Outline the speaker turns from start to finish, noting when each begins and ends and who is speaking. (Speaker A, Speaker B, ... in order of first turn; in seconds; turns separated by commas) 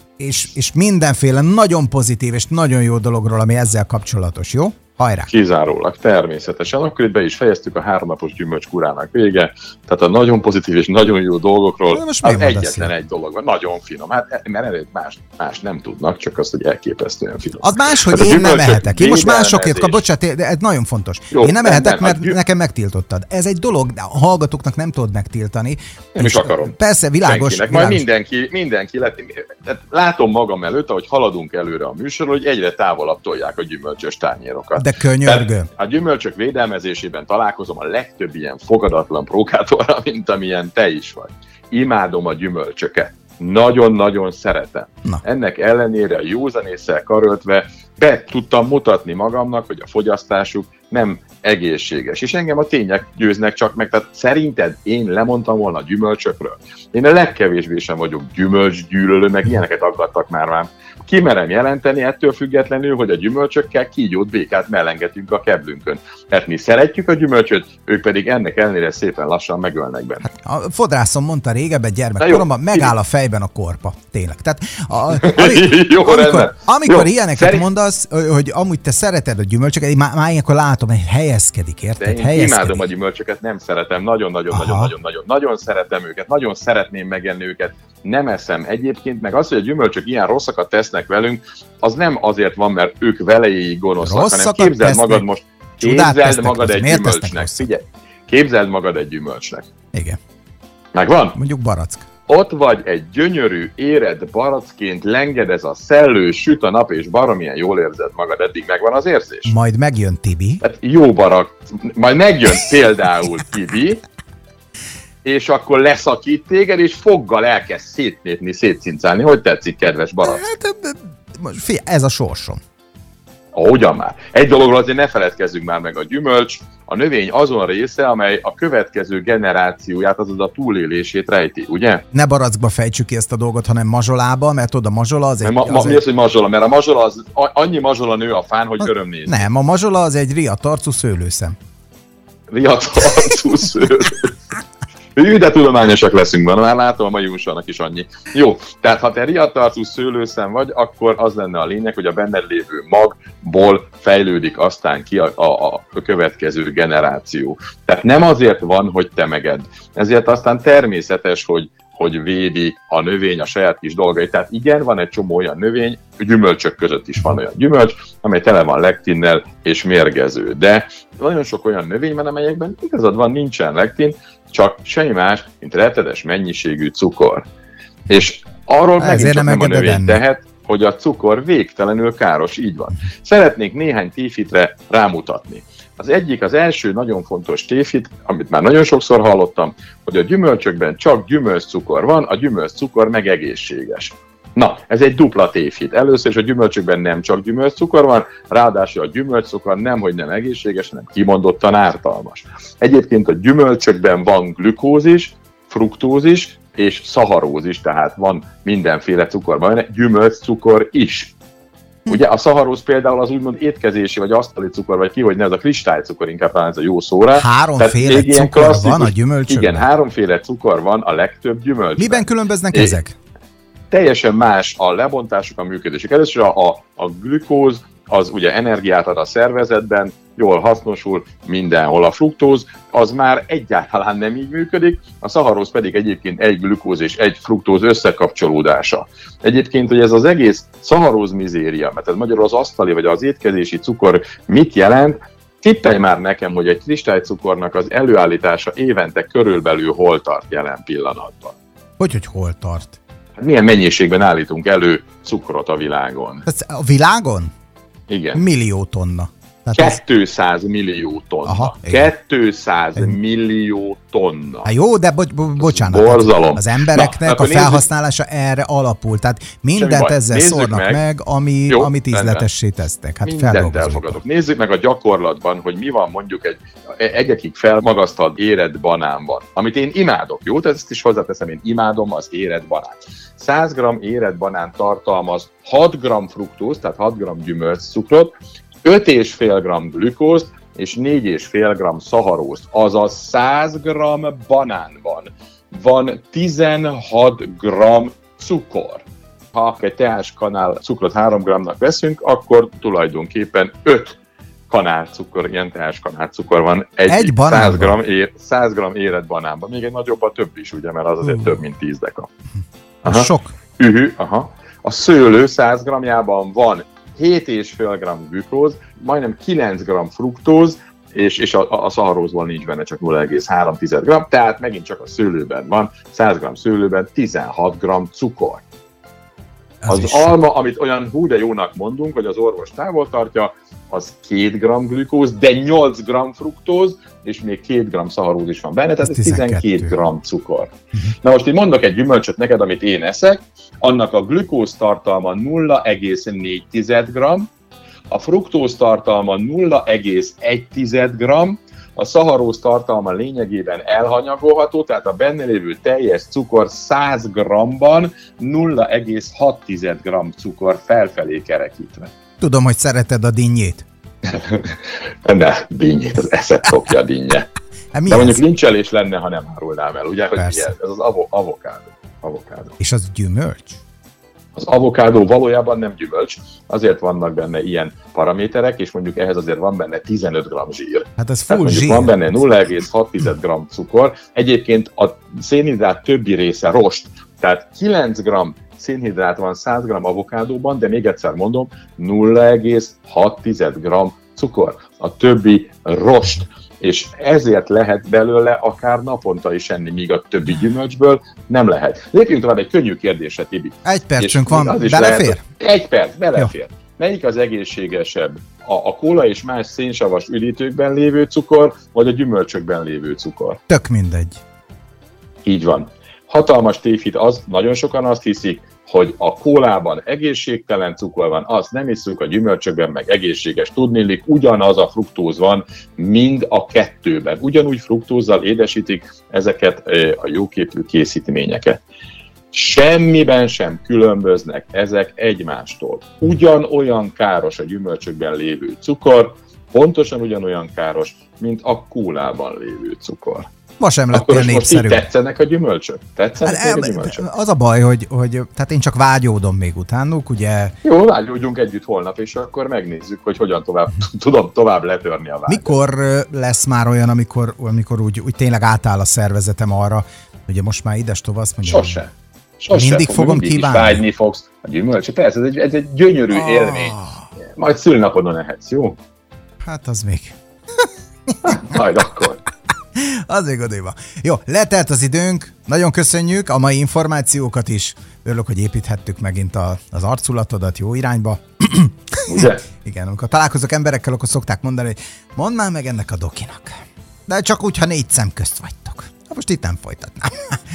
Speaker A: 0.2-5.3, Speaker B: 5.3-20.0, Speaker A: 11.9-12.9, Speaker A: 17.6-28.0, Speaker B: 21.3-22.4, Speaker B: 26.1-70.3, Speaker A: 34.8-35.7, Speaker A: 70.2-82.8, Speaker B: 72.2-72.9, Speaker B: 75.1-77.7, Speaker B: 82.0-99.7, Speaker A: 84.5-84.9, Speaker A: 94.0-95.3, Speaker A: 95.8-97.7, Speaker B: 100.9-101.4, Speaker A: 101.4-102.0, Speaker B: 102.3-109.5, Speaker A: 109.5-110.6, Speaker B: 110.6-114.0, Speaker B: 115.2-120.4, Speaker A: 120.2-122.6, Speaker B: 123.5-132.0, Speaker A: 132.1-136.0, Speaker B: 135.4-139.5, Speaker A: 139.3-141.6, Speaker B: 142.5-144.3, Speaker B: 145.2-177.4, Speaker B: 178.1-211.3, Speaker A: 179.0-180.2, Speaker B: 212.1-223.0, Speaker A: 217.3-219.9, Speaker A: 222.0-223.2, Speaker B: 223.9-251.6, Speaker A: 252.0-253.0, Speaker B: 253.4-256.5, Speaker A: 256.5-257.5, Speaker B: 258.1-258.4, Speaker A: 258.4-260.0, Speaker B: 259.7-264.7, Speaker A: 261.5-262.1, Speaker A: 264.6-274.2, Speaker B: 265.6-267.9, Speaker B: 269.8-271.0, Speaker B: 271.7-272.5, Speaker B: 273.2-304.2, Speaker B: 304.7-312.3, Speaker A: 307.1-308.0, Speaker B: 313.0-328.6, Speaker A: 313.1-313.5, Speaker A: 329.8-330.3, Speaker B: 329.9-347.5, Speaker A: 339.0-339.9, Speaker B: 348.1-362.1, Speaker A: 362.4-363.8, Speaker B: 364.2-367.5, Speaker A: 367.9-368.4, Speaker B: 368.1-372.8, Speaker A: 370.4-370.7, Speaker A: 372.8-373.8, Speaker B: 374.6-413.6, Speaker A: 381.2-382.3, Speaker A: 403.9-405.4, Speaker A: 413.7-414.4, Speaker B: 415.4-431.8, Speaker B: 432.5-443.5, Speaker A: 443.8-445.1, Speaker B: 444.1-447.3, Speaker A: 446.4-450.7, Speaker B: 450.8-455.8, Speaker A: 455.5-462.0, Speaker B: 461.6-467.0, Speaker A: 462.7-464.1, Speaker A: 466.3-467.2, Speaker B: 467.5-469.0, Speaker A: 469.6-470.4, Speaker B: 471.4-472.4, Speaker A: 473.0-486.8, Speaker B: 482.3-482.7, Speaker A: 487.3-490.6